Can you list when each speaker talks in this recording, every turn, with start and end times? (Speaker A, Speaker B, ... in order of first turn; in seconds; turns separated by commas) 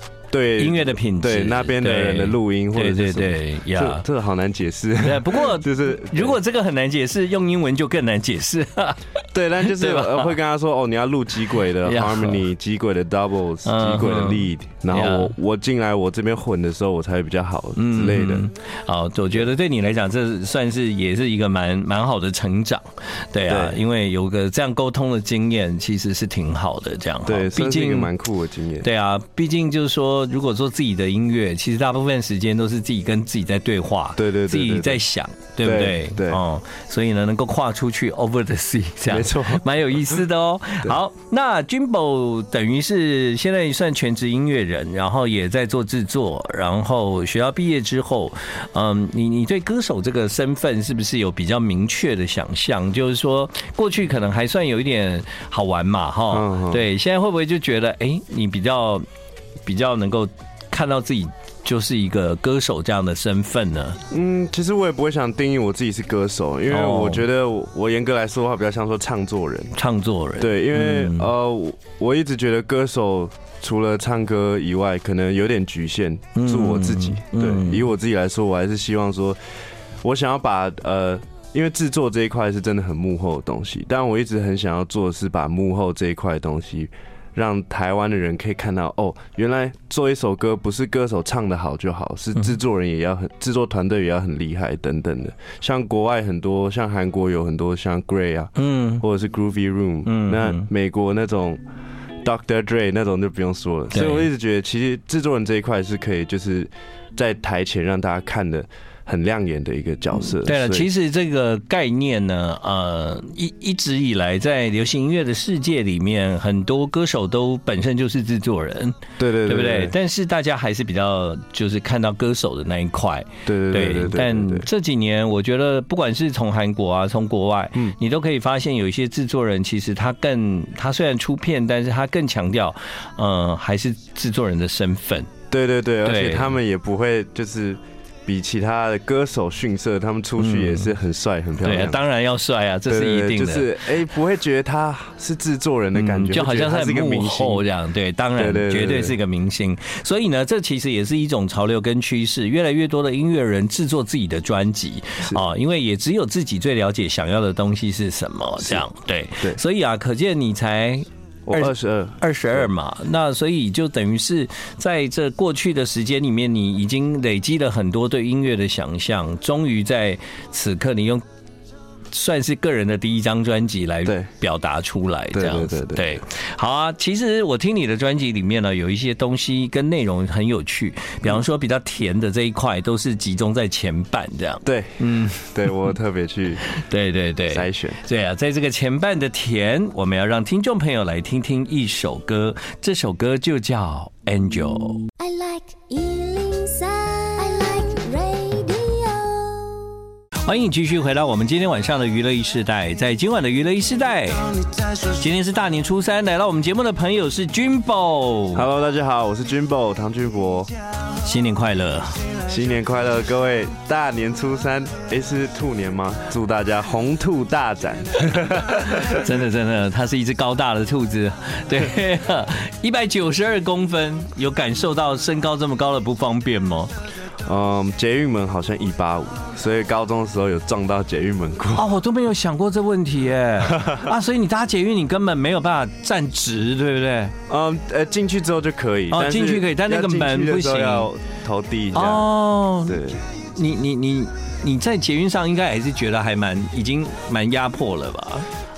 Speaker A: 0.3-6.4, Speaker B: 0.6-4.0, Speaker B: 5.0-9.1, Speaker A: 9.3-18.5, Speaker B: 9.6-10.3, Speaker B: 11.8-12.4, Speaker B: 13.6-15.3, Speaker B: 17.8-28.1, Speaker A: 23.5-23.8, Speaker A: 27.2-28.9, Speaker B: 28.8-59.0, Speaker A: 34.1-35.0, Speaker A: 35.6-36.4, Speaker A: 39.1-39.6, Speaker A: 56.3-56.8, Speaker B: 59.6-64.0, Speaker A: 64.1-69.7, Speaker B: 66.7-67.2, Speaker B: 69.7-71.3, Speaker A: 70.4-79.4, Speaker B: 76.3-77.8, Speaker A: 80.0-101.6, Speaker B: 98.6-99.0, Speaker B: 100.0-100.7, Speaker A: 102.2-110.9, Speaker B: 103.9-104.3, Speaker B: 110.2-135.3, Speaker A: 119.2-120.0, Speaker A: 123.5-124.7, Speaker A: 135.5-142.0, Speaker B: 136.0-136.6, Speaker B: 140.4-140.9, Speaker B: 141.6-143.8, Speaker A: 142.8-147.6, Speaker B: 145.9-171.2, Speaker A: 148.3-149.2, Speaker A: 161.4-162.7, Speaker B: 172.1-185.7, Speaker A: 175.3-176.1, Speaker A: 184.6-186.6, Speaker B: 186.7-195.1, Speaker A: 187.5-188.0, Speaker C: 195.2-200.0, Speaker B: 200.4-208.6, Speaker A: 208.5-210.7, Speaker B: 211.2-212.2, Speaker A: 212.4-219.3, Speaker B: 218.8-226.9, Speaker A: 227.4-231.9, Speaker B: 231.7-237.3, Speaker A: 233.7-234.1, Speaker A: 237.5-242.3, Speaker B: 239.1-241.1, Speaker B: 241.9-248.4, Speaker A: 242.8-243.2